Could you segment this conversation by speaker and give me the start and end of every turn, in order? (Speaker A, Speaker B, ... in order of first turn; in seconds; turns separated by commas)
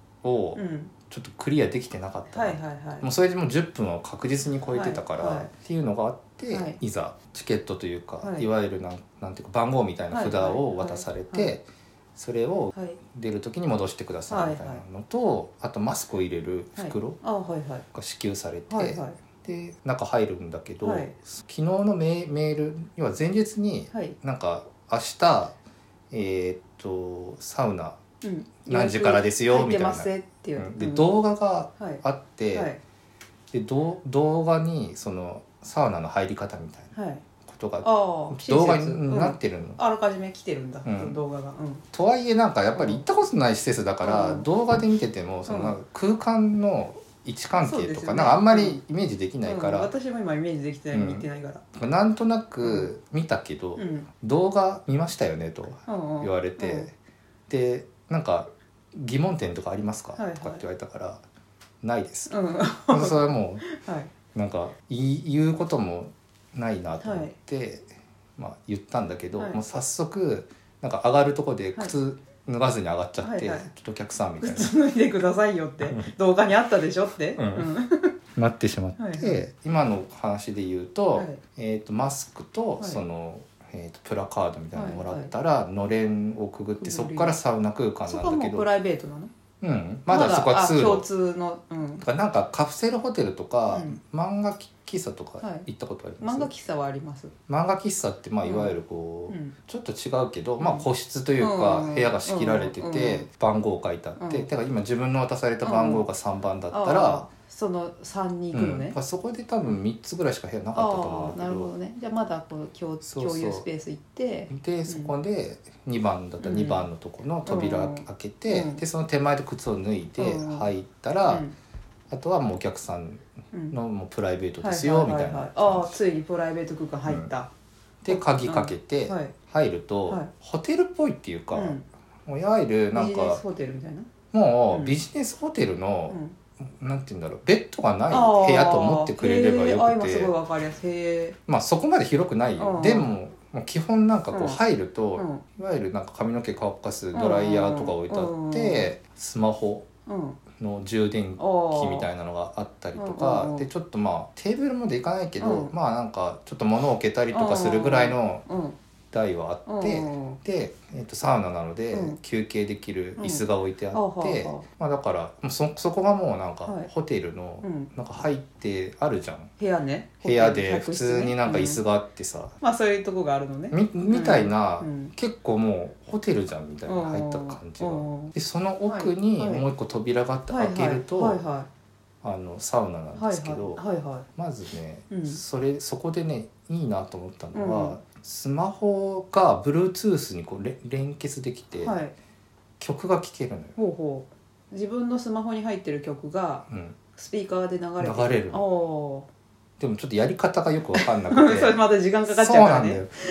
Speaker A: 0.2-17.2, Speaker B: 0.6-0.9, Speaker B: 2.3-3.1, Speaker B: 4.7-5.5, Speaker B: 6.5-6.8, Speaker B: 8.2-8.5, Speaker B: 10.1-11.5, Speaker B: 12.7-13.0, Speaker B: 14.3-14.8, Speaker B: 16.8-17.8, Speaker A: 17.9-25.6, Speaker B: 18.7-19.2, Speaker B: 20.8-21.1, Speaker A: 26.1-28.0, Speaker B: 28.2-31.1, Speaker A: 28.6-32.7, Speaker B: 31.8-32.8, Speaker A: 33.5-36.9, Speaker B: 36.9-37.2, Speaker A: 37.5-39.8, Speaker B: 37.8-41.8, Speaker A: 40.8-41.2, Speaker A: 41.9-49.9, Speaker B: 42.7-43.0, Speaker B: 44.0-44.5, Speaker B: 45.5-45.8, Speaker B: 47.6-48.8, Speaker B: 49.4-51.6, Speaker A: 50.9-56.9, Speaker B: 52.6-52.9, Speaker B: 53.8-54.1, Speaker B: 55.9-56.9, Speaker A: 57.5-61.2, Speaker B: 60.2-60.6, Speaker A: 61.8-62.3, Speaker B: 62.3-64.1, Speaker A: 62.9-63.6, Speaker A: 64.3-74.7, Speaker B: 67.0-67.3, Speaker B: 73.2-73.7, Speaker B: 74.4-78.1, Speaker A: 75.8-76.1, Speaker A: 77.4-77.7, Speaker A: 78.3-88.7, Speaker B: 79.0-79.4, Speaker B: 81.1-81.4, Speaker B: 84.7-85.3, Speaker B: 86.8-87.4, Speaker B: 88.0-89.3, Speaker A: 89.6-91.0, Speaker B: 90.1-92.0, Speaker A: 92.0-96.5, Speaker B: 93.7-94.0, Speaker B: 95.4-95.7, Speaker B: 96.2-97.3, Speaker A: 97.5-107.3, Speaker B: 98.4-98.8, Speaker B: 99.3-99.5, Speaker B: 100.6-103.3, Speaker B: 104.2-104.5, Speaker B: 105.6-106.1, Speaker B: 106.7-109.0, Speaker A: 108.5-111.7, Speaker B: 110.7-115.1, Speaker A: 113.0-113.7, Speaker A: 114.5-121.5, Speaker B: 116.4-116.9, Speaker B: 117.5-118.8, Speaker B: 120.2-120.7, Speaker B: 121.2-121.5, Speaker A: 122.1-126.0, Speaker B: 123.5-123.8, Speaker B: 124.6-127.5, Speaker A: 128.0-133.4, Speaker B: 128.1-129.3, Speaker B: 131.5-131.8, Speaker B: 132.9-134.1, Speaker A: 134.3-140.3, Speaker B: 134.7-134.9, Speaker B: 136.1-136.3, Speaker B: 138.1-141.4, Speaker A: 141.5-149.8, Speaker B: 142.6-143.1, Speaker B: 144.3-144.6, Speaker B: 145.2-145.4, Speaker B: 147.1-148.9, Speaker B: 150.1-150.4, Speaker A: 150.6-158.4, Speaker B: 151.4-152.1, Speaker B: 153.0-153.7, Speaker B: 155.4-155.7, Speaker B: 157.3-158.8, Speaker A: 159.1-169.5, Speaker B: 159.7-160.4, Speaker B: 161.9-162.2, Speaker B: 163.2-164.7, Speaker B: 166.6-166.9, Speaker B: 167.6-167.9, Speaker B: 169.6-171.8, Speaker A: 170.2-172.5, Speaker B: 172.6-175.1, Speaker A: 173.7-181.4, Speaker B: 176.8-178.3, Speaker B: 178.9-179.7, Speaker B: 180.5-181.7, Speaker A: 182.2-183.8, Speaker B: 183.2-184.2, Speaker A: 184.3-192.0, Speaker B: 185.1-185.4, Speaker B: 187.5-188.0, Speaker B: 191.7-192.1, Speaker A: 192.8-193.8, Speaker B: 193.8-199.3, Speaker A: 196.7-197.0, Speaker A: 198.0-198.6, Speaker A: 199.8-203.1, Speaker B: 200.9-203.1